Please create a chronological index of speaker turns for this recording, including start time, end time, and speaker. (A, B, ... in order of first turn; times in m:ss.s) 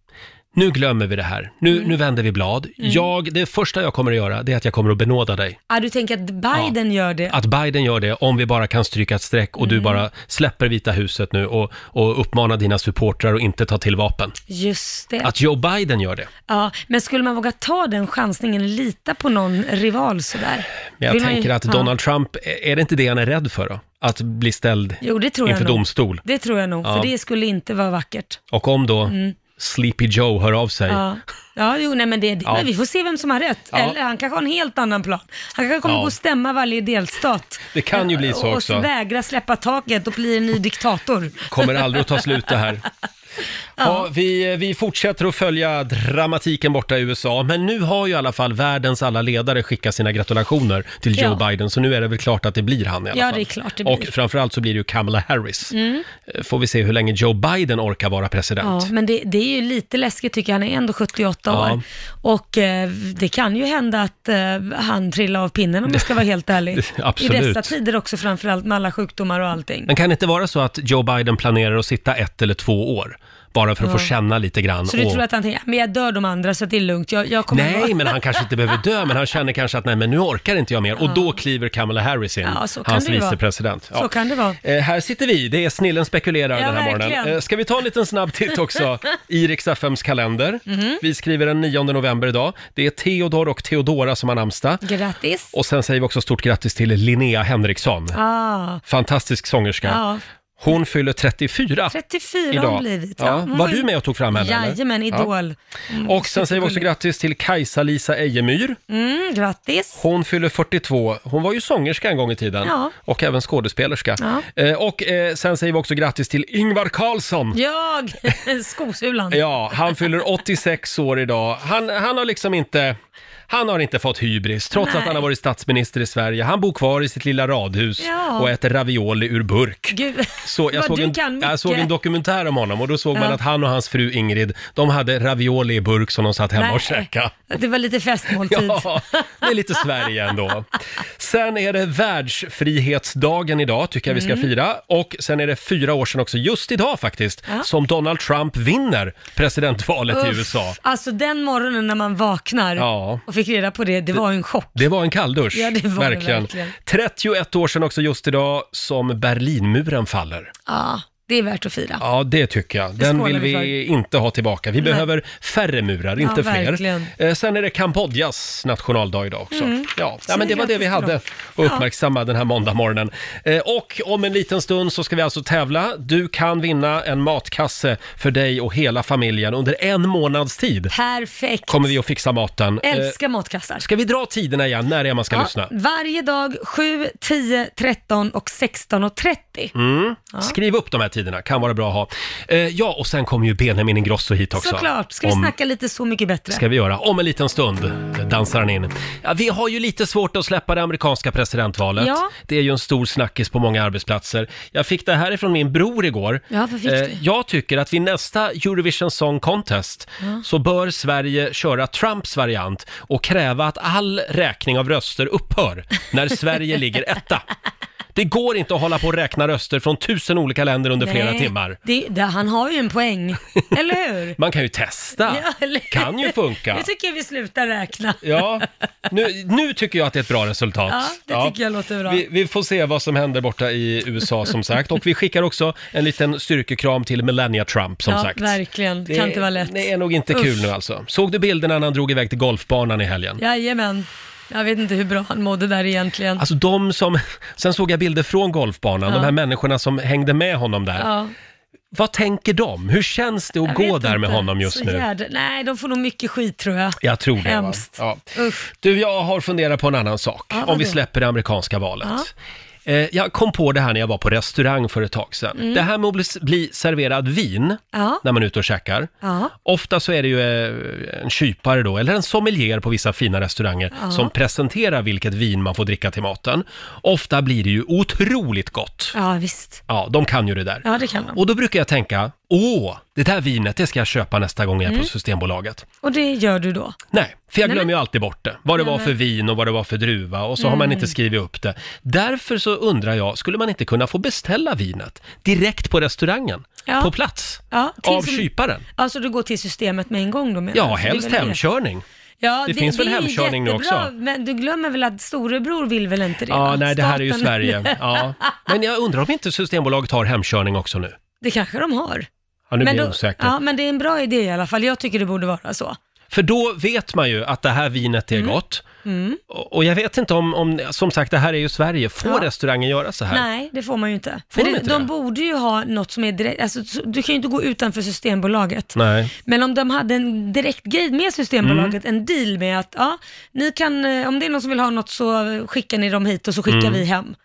0:00.6-0:05.6 A
0:02.8-0:03.1 B
0:05.7-0:07.4 B
0:07.3-0:14.4 A
0:09.6-0:10.0 B
0:14.5-0:15.3 B
0:15.2-0:16.3 A
0:16.5-0:21.9 B
0:21.0-0:26.2 A
0:25.0-0:28.4 B
0:26.8-0:27.1 A
0:28.5-0:31.0 A
0:29.1-0:29.4 B
0:30.9-0:42.0 B
0:35.8-0:36.1 A
0:37.7-0:38.9 A
0:41.5-0:42.8 A
0:43.8-0:44.1 B
0:43.8-0:55.8 A
0:51.2-0:51.4 B
0:53.1-0:54.1 B
0:55.7-0:56.0 B
0:56.3-0:58.9 A
0:58.6-1:09.9 B
1:01.5-1:01.8 A
1:06.7-1:07.7 A
1:09.9-1:15.2 A
1:13.8-1:14.1 B
1:14.9-1:18.2 B
1:17.5-1:24.1 A
1:21.0-1:21.4 B
1:22.4-1:23.4 B
1:23.9-1:24.6 B
1:24.6-1:34.8 A
1:26.6-1:27.4 B
1:30.7-1:31.0 B
1:34.8-1:35.5 B
1:35.5-1:38.2 A
1:38.1-1:38.8 B
1:38.9-1:40.0 A
1:39.8-1:40.2 B
1:40.6-1:42.0 A
1:41.9-1:46.9 B
1:42.5-1:45.3 A
1:46.0-1:48.8 A
1:48.9-1:50.0 B
1:50.0-1:57.6 A
1:52.6-1:53.0 B
1:54.2-1:54.4 B
1:57.5-1:59.4 B
1:59.3-2:03.0 A
2:03.5-2:17.5 A
2:04.7-2:05.2 B
2:08.0-2:08.5 B
2:09.9-2:11.9 B
2:16.6-2:19.5 B
2:18.4-2:30.8 A
2:24.1-2:24.5 B
2:30.1-2:34.8 B
2:32.8-2:33.2 A
2:34.8-2:40.5 A
2:35.5-2:36.8 B
2:40.7-2:42.0 B
2:42.0-3:00.9 A
2:43.0-2:43.7 B
2:44.8-2:45.1 B
2:46.2-2:47.1 B
2:49.5-2:51.8 B
3:00.9-3:01.9 B
3:01.7-3:03.2 A
3:02.8-3:03.8 B
3:03.8-3:05.7 A
3:05.3-3:09.7 B
3:09.7-3:15.5 A
3:14.6-3:16.6 B
3:16.5-3:37.5 A
3:22.0-3:22.3 B
3:26.5-3:27.2 B
3:38.2-3:41.8 A
3:41.0-3:44.4 B
3:44.4-3:46.9 A
3:45.3-3:48.6 B
3:48.2-3:51.6 A
3:50.9-3:52.2 B
3:52.1-3:58.6 A
3:58.1-4:00.7 B
3:59.1-4:03.4 A
4:03.4-4:06.4 B
4:06.4-4:11.1 A
4:09.1-4:09.3 B
4:11.0-4:11.3 B
4:11.9-4:15.0 A
4:13.6-4:18.7 B
4:17.0-4:22.3 A
4:20.5-4:21.0 B
4:22.0-4:22.3 B
4:22.9-4:29.1 A
4:25.6-4:25.8 B
4:27.9-4:28.2 B
4:29.2-4:29.5 B
4:29.6-4:39.2 A
4:34.0-4:34.3 B
4:39.1-4:39.8 B
4:39.9-4:45.8 A
4:40.8-4:41.4 B
4:46.0-4:47.0 B
4:47.1-4:58.8 A
4:47.6-4:47.9 B
4:48.8-4:49.1 B
4:50.6-4:51.1 B
4:56.9-4:57.1 B
4:57.7-5:01.6 B
5:00.7-5:02.0 A
5:02.4-5:08.5 B
5:02.7-5:04.1 A
5:06.5-5:11.2 A
5:11.4-5:12.3 B
5:12.7-5:13.5 A
5:12.8-5:16.0 B
5:16.3-5:18.8 A
5:18.3-5:19.4 B
5:19.5-5:23.4 A
5:23.3-5:37.3 B
5:24.5-5:25.1 A
5:29.0-5:29.3 A
5:31.6-5:32.0 A
5:36.7-5:37.0 A